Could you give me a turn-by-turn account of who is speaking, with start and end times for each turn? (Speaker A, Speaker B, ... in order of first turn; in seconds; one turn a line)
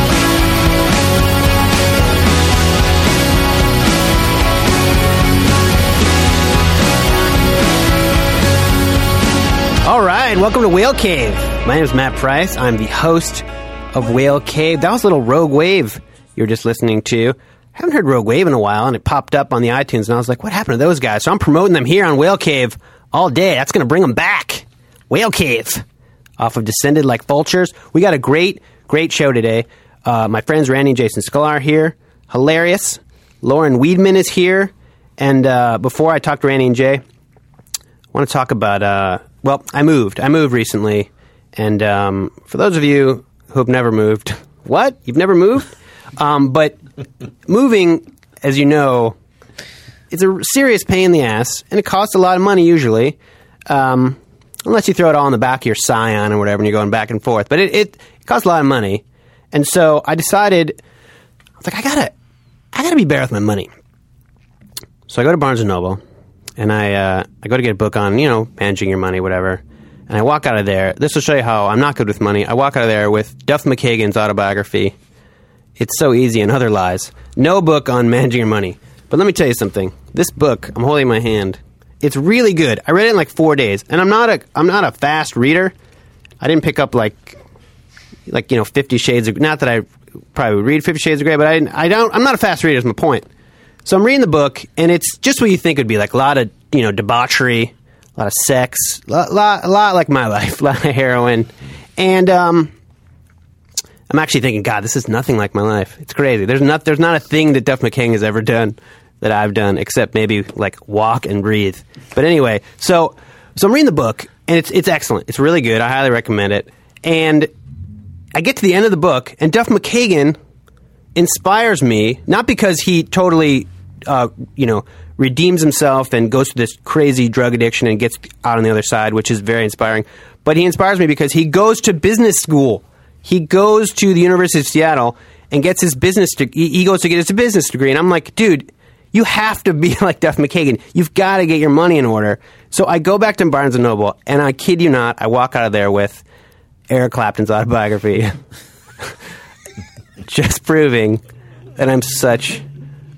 Speaker A: 9.8-25.8
Speaker A: 26.4-37.0
Speaker A: 38.1-46.8
Speaker A: 47.5-49.2
Speaker A: 50.1-53.2
Speaker A: 53.7-60.8
Speaker A: 61.6-62.1
Speaker A: 62.7-63.7
Speaker A: 65.1-66.0
Speaker A: 66.6-74.9
Speaker A: 75.8-85.7
Speaker A: 86.4-87.4
Speaker A: 88.3-93.3
Speaker A: 93.8-102.7
Speaker A: 104.1-117.5
Speaker A: 118.3-120.4
Speaker A: 121.2-146.2
Speaker A: 146.9-148.4
Speaker A: 150.3-151.2
Speaker A: 151.8-152.6